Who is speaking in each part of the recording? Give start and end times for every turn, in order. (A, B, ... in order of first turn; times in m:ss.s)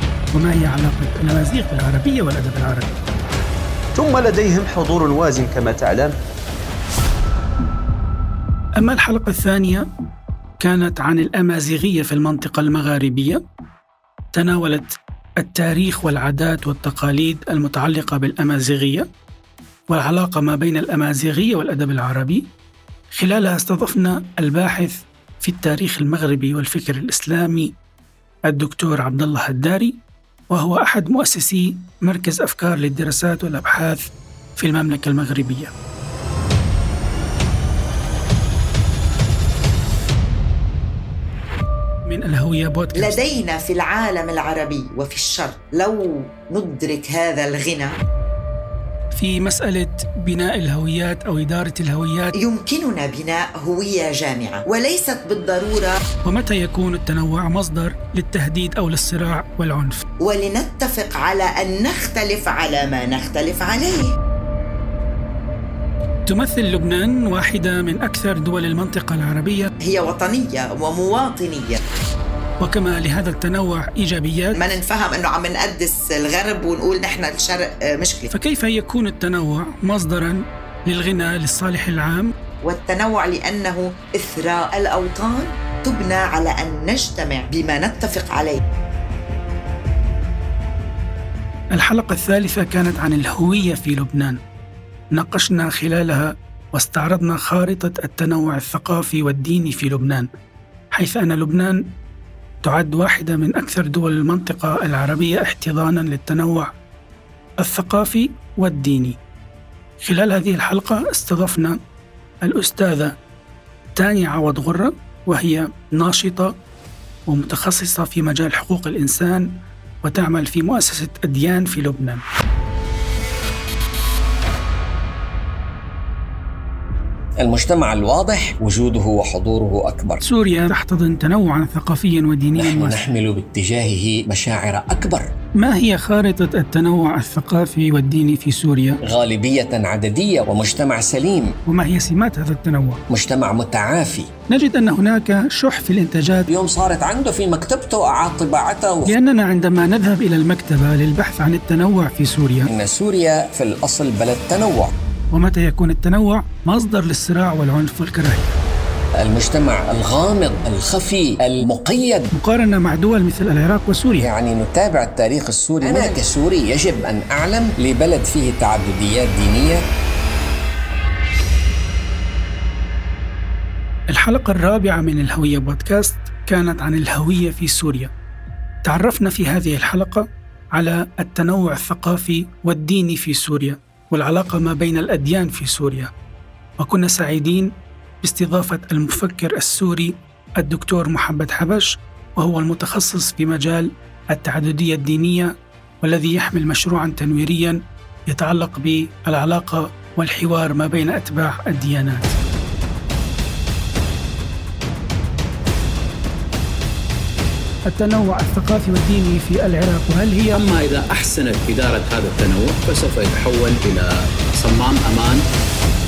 0:00.3-0:03.0 A
0:04.0-0:06.1 B
0:08.8-0:09.8 A
0:10.6-0:13.4 A
0:14.3-0:19.1 A
0:19.9-0:22.5 A
0:23.1-0:27.7 A
0:28.4-0:30.0 A
0:30.5-0:35.7 A
0:42.1-0:43.2 A
0:42.9-0:48.0 C
0:49.1-0:52.4 A
0:52.4-0:56.0 C
0:56.2-1:00.0 A
1:00.2-1:04.1 C
1:06.3-1:09.7 A
1:09.8-1:11.8 C
1:12.6-1:14.8 A
1:14.5-1:18.3 C
1:18.3-1:22.3 A
1:22.6-1:28.6 C
1:31.7-1:34.4 A
1:35.1-1:40.3 A
1:40.9-1:41.8 A
1:42.6-1:46.7 A
1:47.6-1:49.2 A
1:50.0-1:51.8 A
1:52.4-1:53.2 A
1:54.0-1:56.5 A
1:57.3-1:59.5 A
2:00.0-2:02.2 A
2:07.4-2:10.2 D
2:10.2-2:13.0 A
2:12.5-2:15.3 D
2:15.6-2:19.0 A
2:19.0-2:21.5 D
2:21.6-2:23.0 A
2:23.1-2:24.3 D
2:24.5-2:26.5 A
2:26.5-2:29.1 D
2:29.0-2:32.7 A
2:32.7-2:34.9 D
2:35.3-2:38.6 A
2:39.2-2:42.3 D
2:42.3-2:44.3 A
2:44.2-2:49.8 D
2:54.1-2:58.1 A
2:58.8-3:06.1 A
3:06.8-3:07.7 A
3:08.2-3:22.4 A
3:27.9-3:30.6 A
3:30.5-3:35.4 E